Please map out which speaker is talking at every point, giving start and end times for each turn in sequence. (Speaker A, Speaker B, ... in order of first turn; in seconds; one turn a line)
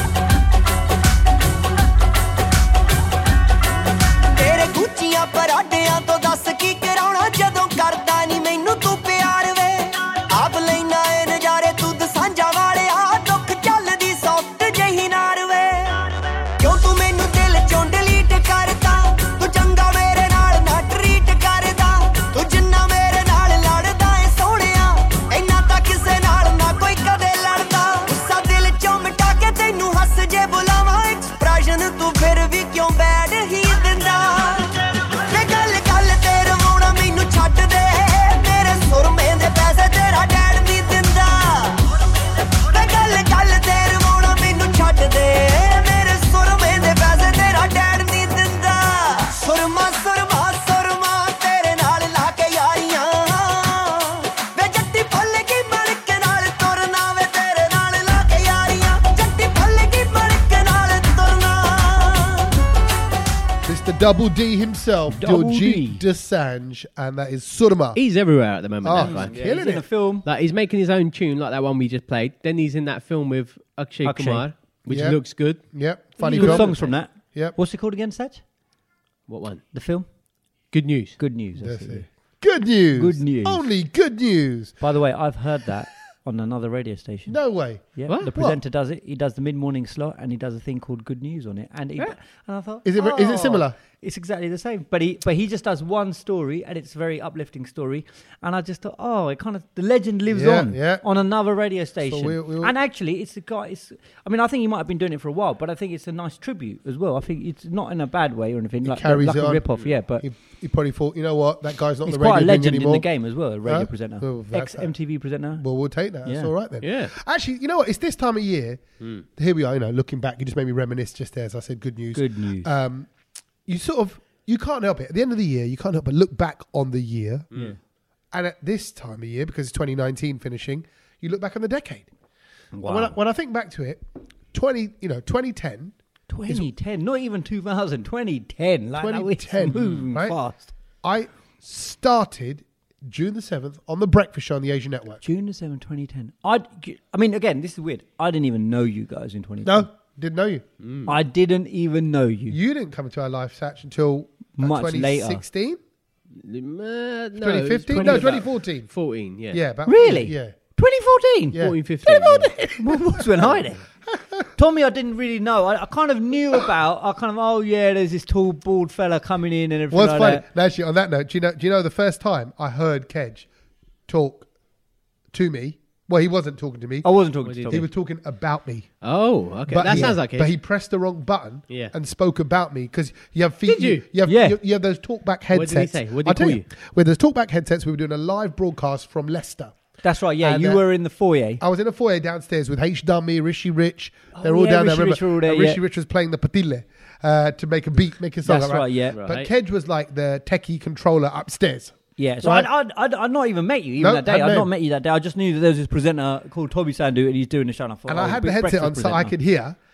Speaker A: 4.3-62.5
Speaker B: 63.6-68.0
Speaker C: 65.1-66.0
Speaker D: 67.9-69.5
Speaker B: 68.8-69.8
Speaker C: 69.0-70.2
Speaker D: 70.2-75.6
Speaker C: 74.0-74.5
Speaker B: 74.9-77.5
Speaker C: 76.2-78.4
Speaker D: 76.2-77.0
Speaker D: 79.3-79.6
Speaker C: 79.7-80.1
Speaker D: 80.7-81.2
Speaker C: 81.2-82.1
Speaker B: 81.6-84.8
Speaker C: 83.0-83.6
Speaker C: 84.8-87.4
Speaker B: 87.3-88.6
Speaker C: 88.0-110.2
Speaker B: 92.8-93.8
Speaker B: 100.3-101.0
Speaker B: 102.0-102.7
Speaker B: 108.8-109.6
Speaker B: 110.2-113.0
Speaker C: 112.0-115.6
Speaker B: 113.6-114.9
Speaker B: 115.6-118.8
Speaker C: 116.2-116.5
Speaker D: 116.8-117.1
Speaker B: 119.3-123.1
Speaker C: 122.1-122.7
Speaker B: 123.7-127.5
Speaker D: 127.5-127.8
Speaker B: 128.3-132.1
Speaker C: 132.7-133.2
Speaker B: 132.8-134.0
Speaker B: 134.5-135.9
Speaker C: 136.3-140.7
Speaker B: 139.0-140.4
Speaker B: 141.0-145.2
Speaker C: 145.2-149.9
Speaker B: 149.6-150.6
Speaker D: 150.8-151.2
Speaker C: 151.1-152.6
Speaker B: 152.5-155.8
Speaker C: 154.6-155.4
Speaker D: 156.3-159.6
Speaker B: 157.4-158.9
Speaker C: 157.9-158.4
Speaker B: 159.5-160.5
Speaker C: 159.9-163.8
Speaker D: 161.5-162.5
Speaker B: 161.5-163.5
Speaker B: 164.1-164.5
Speaker C: 164.6-170.4
Speaker B: 169.9-173.5
Speaker B: 174.1-174.5
Speaker B: 175.3-177.1
Speaker C: 177.0-177.9
Speaker D: 177.4-177.8
Speaker B: 177.7-178.9
Speaker D: 179.0-180.5
Speaker B: 179.7-189.7
Speaker D: 181.7-181.9
Speaker D: 183.6-184.1
Speaker C: 184.2-184.6
Speaker D: 185.5-186.7
Speaker C: 190.0-191.6
Speaker B: 190.4-190.8
Speaker B: 191.6-202.7
Speaker C: 194.3-195.8
Speaker C: 198.4-199.2
Speaker D: 199.1-199.5
Speaker C: 202.2-209.3
Speaker B: 204.0-204.7
Speaker B: 208.1-209.8